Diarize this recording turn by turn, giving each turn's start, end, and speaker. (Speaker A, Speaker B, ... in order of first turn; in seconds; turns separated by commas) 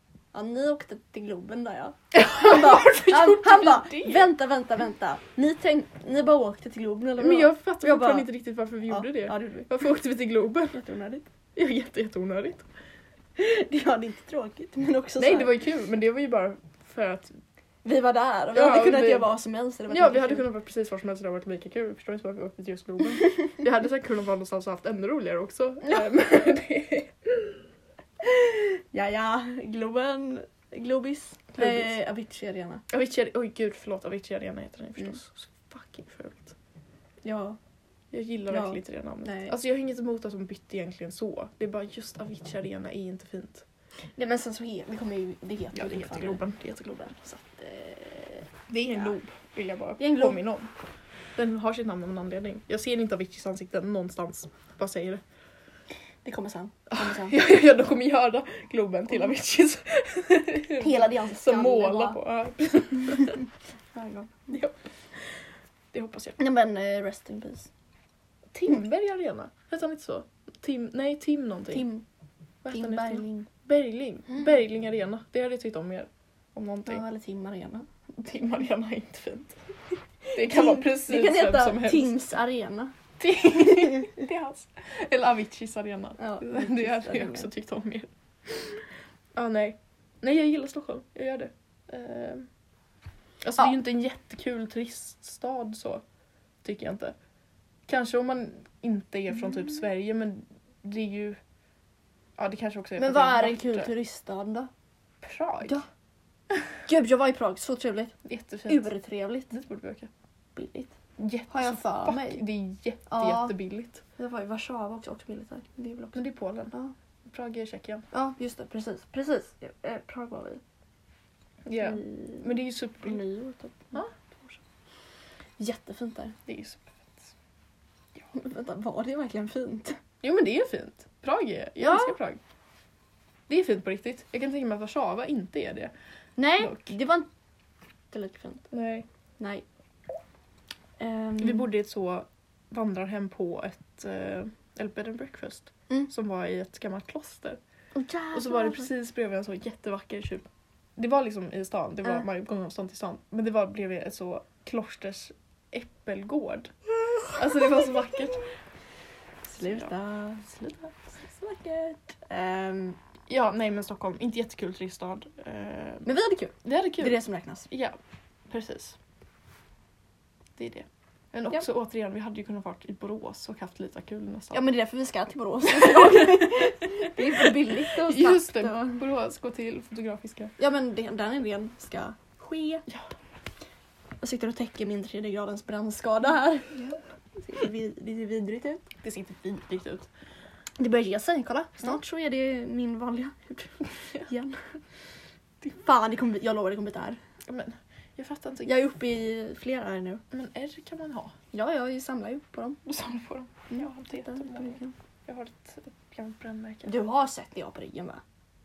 Speaker A: 0.3-8.3, Speaker B: 2.1-4.3, Speaker B: 7.2-10.8, Speaker A: 8.9-9.7, Speaker A: 10.7-11.3, Speaker B: 11.6-12.7, Speaker A: 13.4-15.5, Speaker B: 15.2-17.4, Speaker A: 17.8-20.4, Speaker B: 18.5-19.4, Speaker B: 19.9-27.6, Speaker A: 28.2-32.8, Speaker B: 31.5-31.9, Speaker B: 32.9-36.5, Speaker A: 37.2-37.6, Speaker B: 38.1-43.6, Speaker A: 38.5-39.5, Speaker A: 44.1-49.1, Speaker B: 45.7-47.1, Speaker B: 48.7-50.7, Speaker A: 50.0-50.4, Speaker B: 51.4-55.2, Speaker A: 56.2-57.4, Speaker B: 56.9-63.4, Speaker A: 60.7-62.2, Speaker A: 63.9-64.5, Speaker B: 64.5-64.7, Speaker B: 65.9-66.4, Speaker A: 66.4-67.7, Speaker B: 68.5-71.9, Speaker A: 71.7-72.0, Speaker B: 72.6-77.0, Speaker A: 72.7-73.5, Speaker A: 76.8-77.9, Speaker B: 78.2-79.5, Speaker A: 80.3-82.9, Speaker B: 80.3-82.1, Speaker B: 83.2-88.8, Speaker A: 83.6-84.2, Speaker A: 86.2-87.5, Speaker B: 89.3-92.5, Speaker B: 93.4-96.0, Speaker B: 96.6-97.2, Speaker B: 97.9-101.4, Speaker B: 102.4-103.9, Speaker A: 103.0-104.7, Speaker B: 105.2-105.8, Speaker A: 106.8-108.2, Speaker B: 108.2-108.9, Speaker A: 108.7-109.5, Speaker B: 109.5-110.1, Speaker A: 110.5-110.9, Speaker B: 111.2-114.0, Speaker A: 111.5-112.4, Speaker A: 113.1-113.5, Speaker A: 114.2-116.9, Speaker B: 116.1-116.7, Speaker B: 117.2-118.0, Speaker A: 118.1-120.6, Speaker B: 121.6-123.2, Speaker A: 121.8-124.6, Speaker A: 125.6-126.3, Speaker B: 126.5-127.3, Speaker A: 128.3-130.0, Speaker B: 130.2-132.4, Speaker A: 131.8-132.2, Speaker B: 133.5-135.9, Speaker A: 136.4-137.3, Speaker B: 136.6-136.9, Speaker A: 138.1-138.7, Speaker B: 138.7-139.1, Speaker A: 139.4-139.6, Speaker A: 141.0-141.7, Speaker B: 141.4-147.6, Speaker A: 147.9-148.9, Speaker B: 148.3-156.7, Speaker B: 157.3-158.5, Speaker A: 159.5-163.0, Speaker B: 159.6-159.9, Speaker B: 160.5-160.9, Speaker B: 163.3-166.1, Speaker A: 166.0-167.7, Speaker B: 166.6-167.2, Speaker B: 167.7-167.9, Speaker B: 168.5-169.0, Speaker B: 170.6-174.6, Speaker A: 174.5-179.0, Speaker B: 175.7-176.7, Speaker B: 177.4-180.5, Speaker A: 180.6-182.8, Speaker A: 184.2-188.9, Speaker B: 189.0-190.1, Speaker A: 190.8-194.6, Speaker A: 195.6-197.2, Speaker B: 197.5-198.8, Speaker A: 198.7-200.2, Speaker B: 200.3-201.3, Speaker A: 201.5-202.8, Speaker B: 202.8-204.7, Speaker A: 203.7-204.9, Speaker B: 205.2-206.9, Speaker A: 206.8-208.2